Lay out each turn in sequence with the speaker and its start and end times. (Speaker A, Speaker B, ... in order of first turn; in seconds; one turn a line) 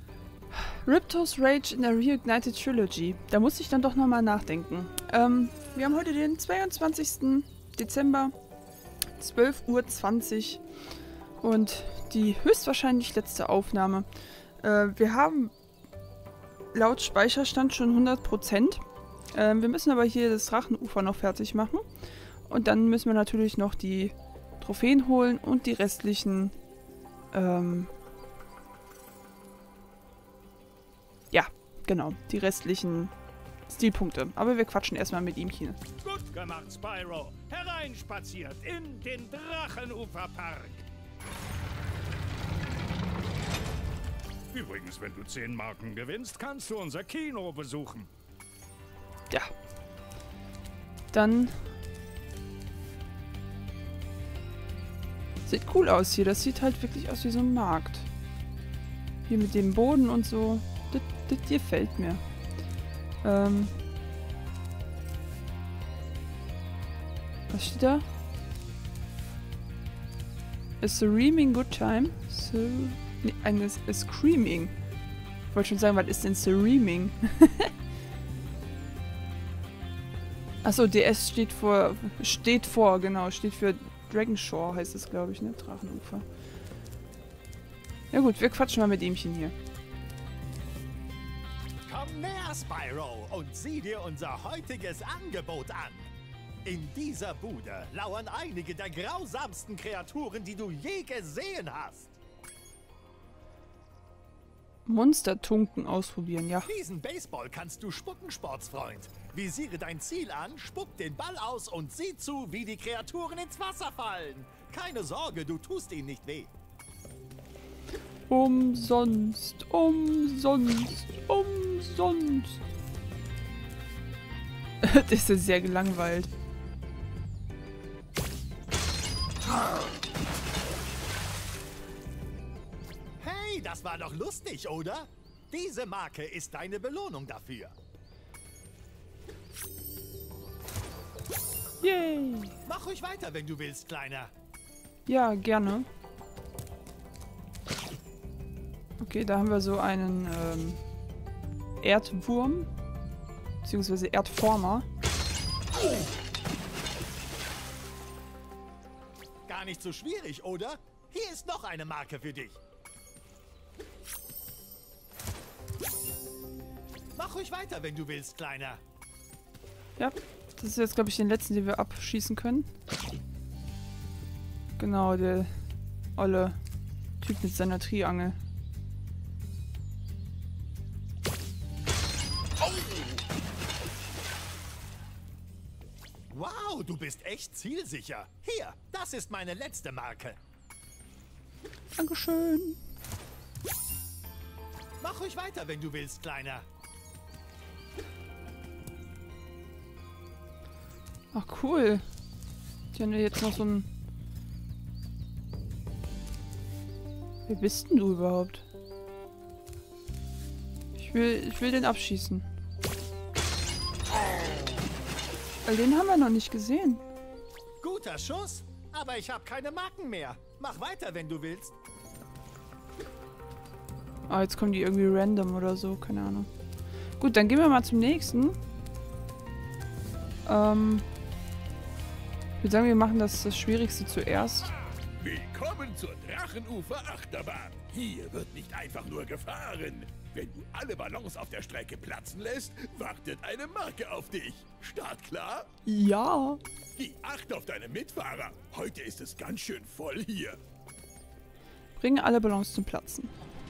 Speaker A: 0.5-8.3
Speaker A: 9.2-10.6
Speaker A: 11.4-14.1
Speaker A: 14.6-15.5
Speaker A: 16.7-21.8
Speaker A: 22.4-26.5
Speaker A: 27.3-27.9
Speaker A: 31.3-33.1
Speaker A: 33.7-35.8
Speaker B: 36.0-40.8
Speaker B: 44.5-48.1
Speaker A: 51.1-51.6
Speaker A: 55.4-58.1
Speaker A: 59.3-62.2
Speaker A: 63.2-63.7
Speaker A: 67.5-68.0
Speaker A: 70.8-74.7
Speaker A: 75.5-77.7
Speaker A: 80.6-86.2
Speaker A: 88.1-89.5
Speaker C: 91.8-96.1
Speaker C: 96.6-102.2
Speaker A: 104.8-106.7
Speaker C: 106.6-116.5
Speaker A: 118.3-122.6
Speaker A: 124.8-126.3
Speaker C: 133.2-137.7
Speaker A: 141.8-142.6
Speaker C: 142.7-144.3
Speaker A: 145.1-145.9
Speaker A: 149.0-150.8
Speaker A: 151.8-152.7
Speaker A: 153.6-154.8
Speaker C: 159.5-162.6
Speaker C: 167.1-168.8
Speaker A: 170.0-172.7
Speaker A: 174.8-175.5
Speaker A: 176.2-176.6
Speaker A: 177.2-178.4
Speaker C: 182.6-183.2
Speaker C: 186.3-190.4
Speaker A: 191.9-192.8
Speaker C: 195.0-196.7
Speaker A: 201.3-202.0
Speaker A: 202.9-203.9
Speaker A: 207.5-208.6
Speaker A: 210.9-212.4
Speaker A: 215.7-217.0
Speaker C: 217.8-221.8
Speaker A: 224.3-226.5
Speaker A: 227.2-228.6
Speaker A: 230.4-231.1
Speaker A: 232.6-234.7
Speaker D: 235.2-245.7
Speaker A: 245.8-246.6
Speaker D: 247.0-250.6
Speaker A: 252.0-253.3